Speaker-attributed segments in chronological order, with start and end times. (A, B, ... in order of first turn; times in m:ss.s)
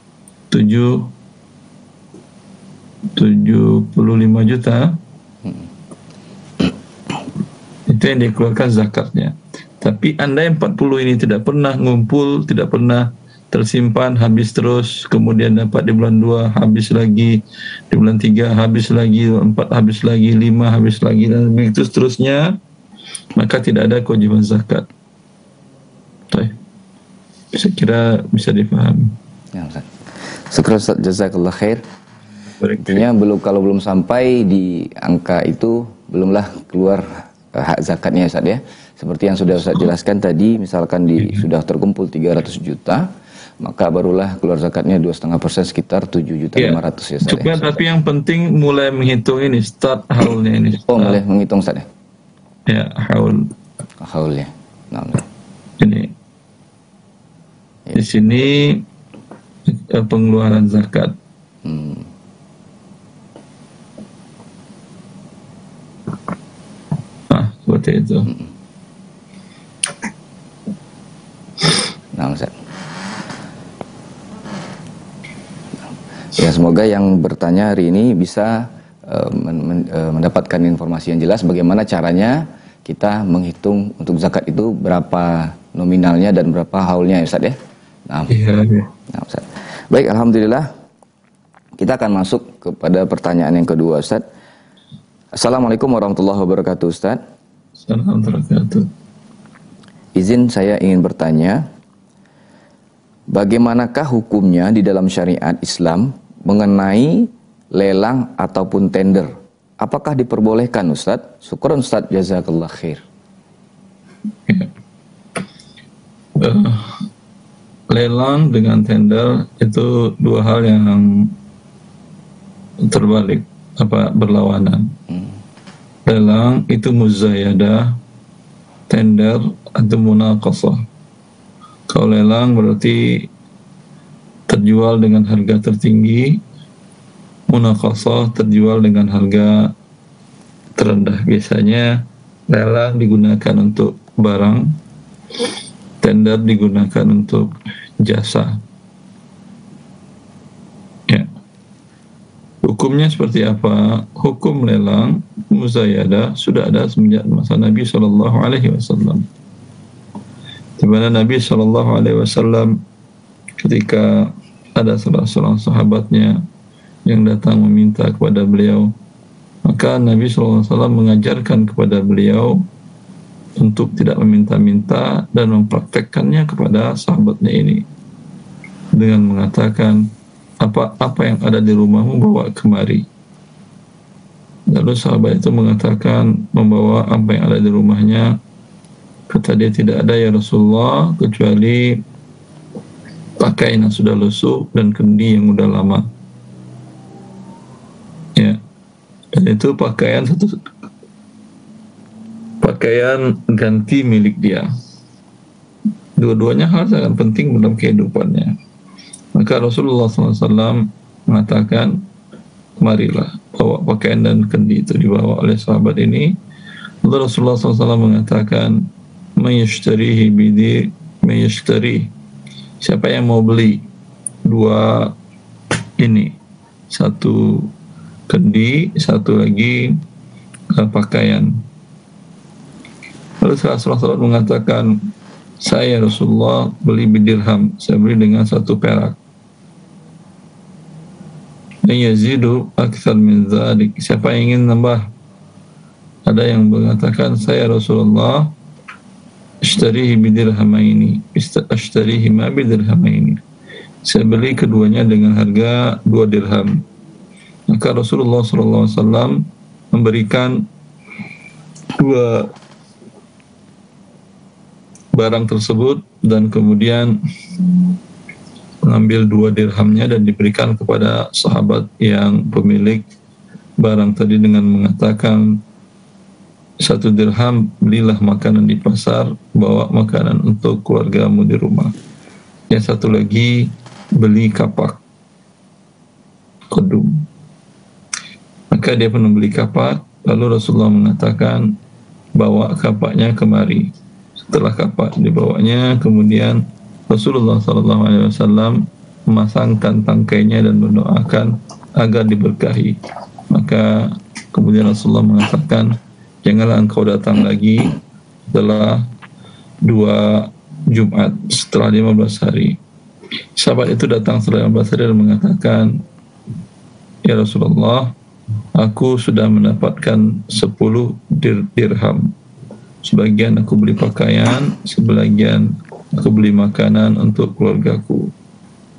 0:00.5-0:01.1 A
0:03.2-0:05.0 A
0:07.9-0:22.6 A
0:23.4-0:24.9 A
0:26.3-0:26.6 A
0:27.5-0:29.2 A
0:29.5-0:31.8 B
0:32.6-0:33.1 A
0:32.8-0:43.1 B
0:43.6-0:47.7 B
0:46.6-0:51.2 A
0:50.9-0:51.9 B
0:52.7-0:53.5 A
0:54.0-0:55.2 B
0:55.8-0:56.1 A
0:57.9-0:58.8 A
0:59.7-1:01.2 A
1:01.6-1:02.1 B
1:07.3-1:08.3 A
1:12.2-1:12.5 B
1:16.4-1:27.6 B
1:28.3-1:28.9 A
1:29.1-1:30.7 B
1:31.8-1:34.2 B
1:35.4-1:37.2 B
1:37.8-1:38.9 A
1:40.2-1:41.6 B
1:43.3-1:53.0 B
1:56.4-1:57.0 A
1:57.9-2:01.3 A
2:02.8-2:05.0 A
2:06.1-2:08.0 A
2:08.9-2:10.8 A
2:11.9-2:13.3 A
2:14.5-2:16.4 A
2:17.5-2:19.7 A
2:20.8-2:24.8 A
2:26.0-2:28.6 A
2:32.6-2:39.3 A
2:40.8-2:42.8 A
2:43.6-2:46.4 A
2:47.1-2:48.9 A
2:49.6-2:52.6 A
2:53.6-2:57.8 A
2:59.0-3:00.1 A
3:00.6-3:03.1 A
3:04.7-3:08.4 A
3:09.3-3:12.0 A
3:13.4-3:16.1 A
3:19.3-3:20.6 A
3:22.6-3:24.7 A
3:26.2-3:28.6 A
3:29.3-3:32.0 A
3:32.8-3:36.4 A
3:37.0-3:42.1 A
3:42.8-3:43.9 A
3:44.4-3:45.2 A
3:46.0-3:46.3 A
3:46.9-3:47.7 A
3:48.3-3:50.0 A
3:50.7-3:51.6 A
3:53.4-3:54.9 A
3:55.6-3:59.2 A
4:01.8-4:05.1 A
4:06.3-4:08.5 A
4:09.6-4:13.4 A
4:14.0-4:16.8 A
4:17.7-4:20.7 A
4:22.0-4:22.5 A
4:25.2-4:27.9 A
4:28.8-4:33.0 A
4:33.8-4:35.6 A
4:36.8-4:41.9 A
4:42.7-4:45.0 A
4:46.7-4:47.2 A
4:48.7-4:51.8 A
4:52.3-4:53.9 A
4:54.5-5:03.0 A
5:03.5-5:08.0 A
5:08.5-5:09.0 A
5:09.8-5:12.8 A
5:13.6-5:16.0 A
5:17.2-5:18.1 A
5:18.8-5:22.3 A
5:23.0-5:28.3 A